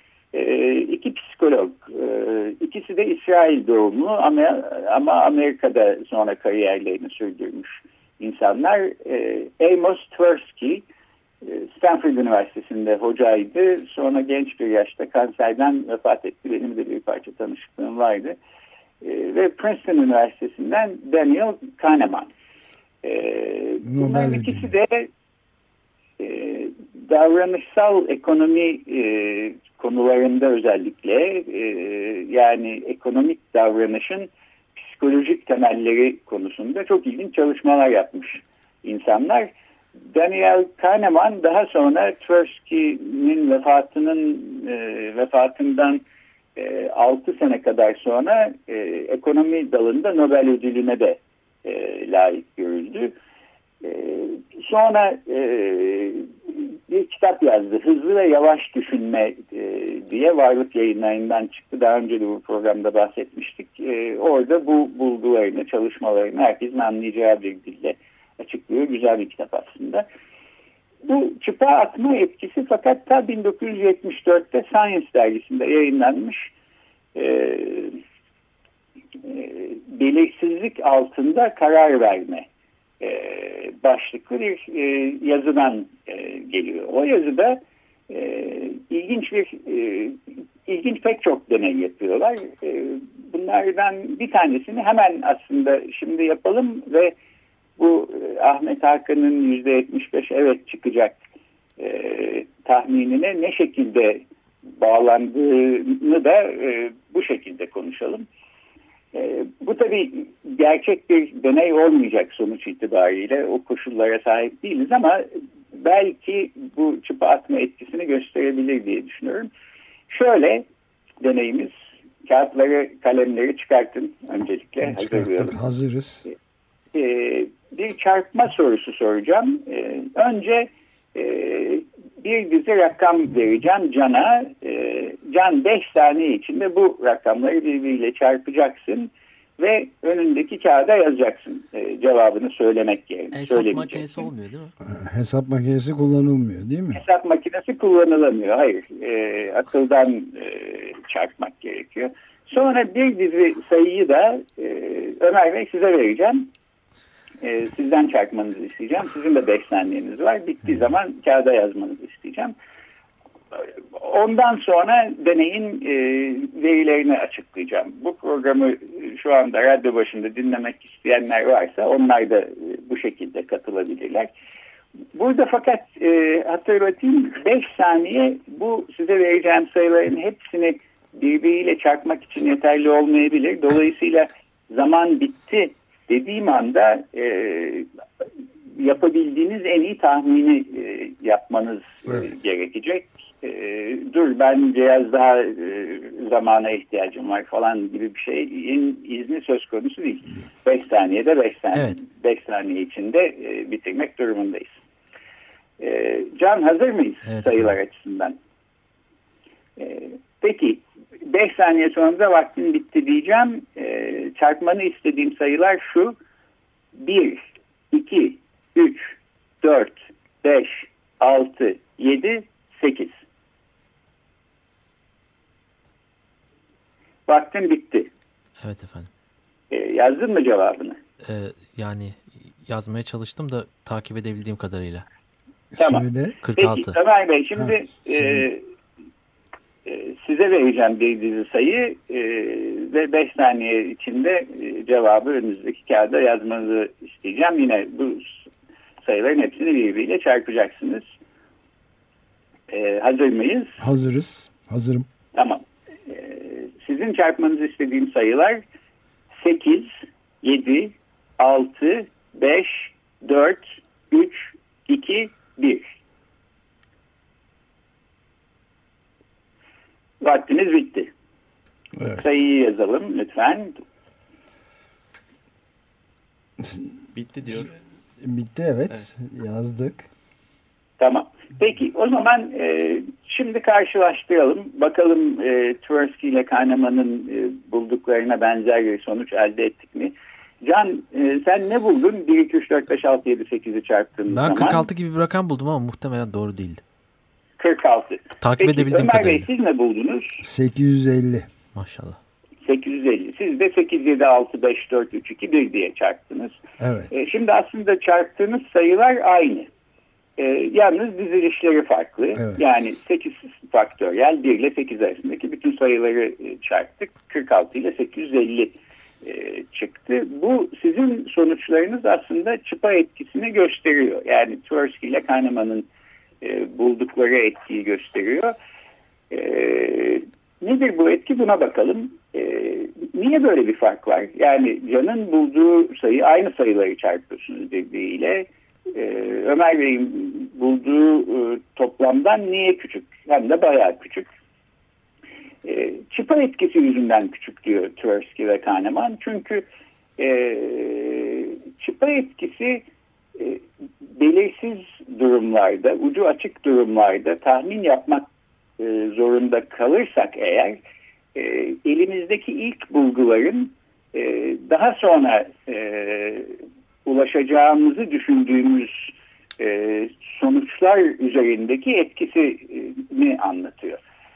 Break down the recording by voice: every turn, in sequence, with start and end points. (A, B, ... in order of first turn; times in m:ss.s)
0:00.3-0:10.9 A
0:11.4-0:18.4 A
0:19.0-0:22.3 A
0:23.0-0:25.1 A
0:23.8-0:24.7 B
0:26.2-0:39.5 A
0:40.1-0:46.0 A
0:46.6-0:53.1 A
0:53.8-1:10.0 A
1:11.0-1:16.5 A
1:17.1-1:18.0 A
1:19.2-1:22.5 A
1:23.0-1:37.1 A
1:37.8-1:41.2 A
1:41.8-1:48.2 A
1:49.1-1:59.5 A
2:00.1-2:00.6 A
2:01.2-2:01.7 A
2:02.2-2:05.6 A
2:04.8-2:06.2 B
2:06.9-2:24.3 A
2:23.3-2:24.7 C
2:24.9-2:27.0 B
2:26.9-2:36.5 A
2:37.4-2:42.5 A
2:43.5-2:54.3 A
2:55.1-3:07.9 A
3:08.8-3:24.8 A
3:21.7-3:22.0 C
3:25.8-3:28.4 A
3:27.3-3:27.7 C
3:29.8-3:36.2 A
3:37.0-3:43.2 A
3:47.3-3:48.1 A
3:48.6-3:49.1 C
3:49.7-3:51.0 A
3:51.2-3:55.0 C
3:55.7-3:56.4 B
3:55.8-3:58.6 A
3:56.4-3:56.9 C
3:59.8-4:08.4 A
4:09.0-4:11.1 A
4:12.7-4:13.8 A
4:13.8-4:15.0 B
4:15.4-4:18.6 A
4:19.4-4:25.9 A
4:30.2-4:31.1 A
4:32.1-4:33.8 A
4:36.6-4:36.9 B
4:38.2-4:40.1 B
4:41.0-4:54.8 A
4:54.3-4:56.8 C
4:57.6-5:00.4 A
4:58.4-4:59.5 C
5:00.4-5:01.5 B
5:01.7-5:02.2 C
5:02.6-5:06.6 A
5:06.8-5:07.1 B
5:07.1-5:09.7 A
5:10.4-5:25.9 A
5:26.4-5:28.5 A
5:29.3-5:44.2 A
5:45.6-5:49.6 A
5:50.2-5:58.3 A
5:58.8-6:00.8 A
6:01.3-6:14.0 A